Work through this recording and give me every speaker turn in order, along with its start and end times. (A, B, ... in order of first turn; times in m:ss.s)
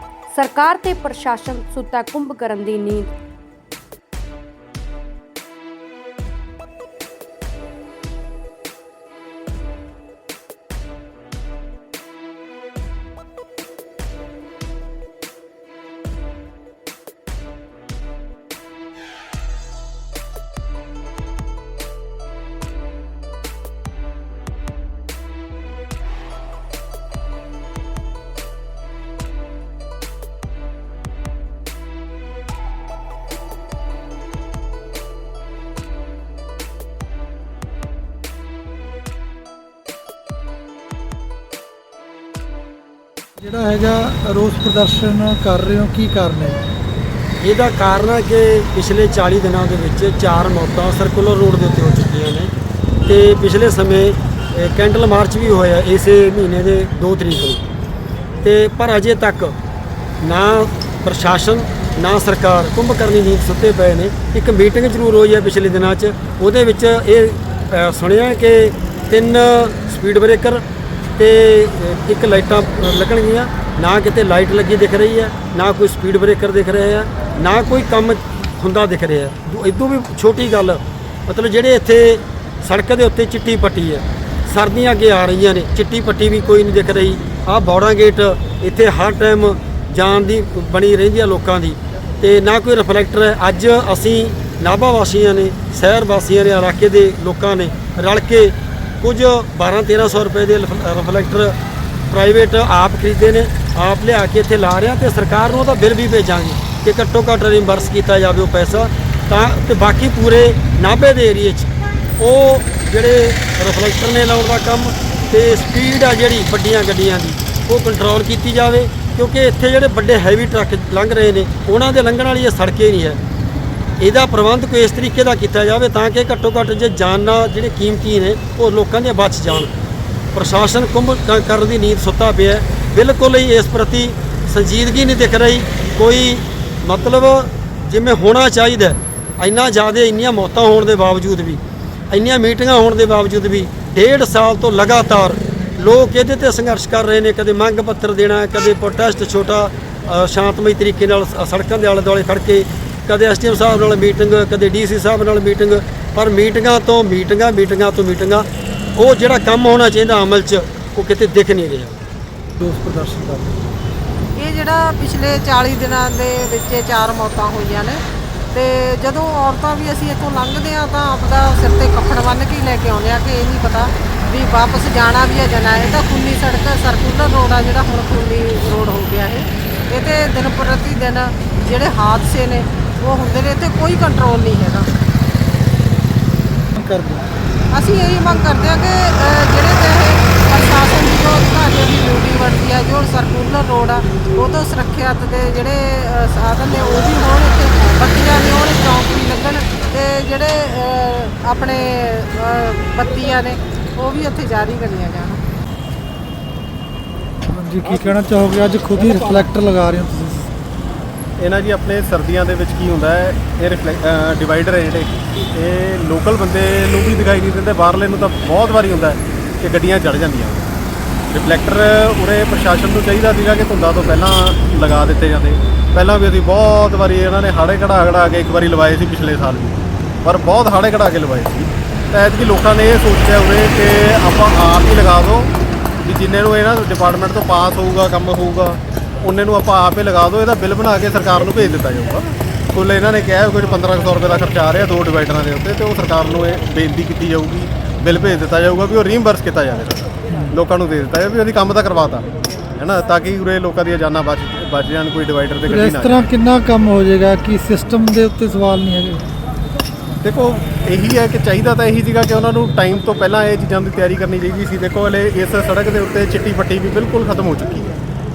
0:00.3-0:03.1 A
0:43.4-0:46.6 B
0:47.4-0:52.5 C
0:53.1-0:57.7 C
0:58.4-0:59.6 C
1:00.2-1:10.6 C
1:11.2-1:41.6 C
1:42.1-2:03.2 C
2:04.0-2:09.7 C
2:10.3-2:21.6 C
2:22.1-2:42.0 C
2:42.6-2:43.6 B
2:44.4-2:48.0 D
2:48.5-3:04.9 D
3:06.8-3:07.3 B
3:07.7-3:25.4 D
3:27.5-3:30.5 B
3:31.4-3:40.7 E
3:41.3-3:55.5 E
3:56.0-4:12.3 E
4:12.8-4:16.3 E
4:15.7-4:19.2 B
4:20.2-4:28.0 E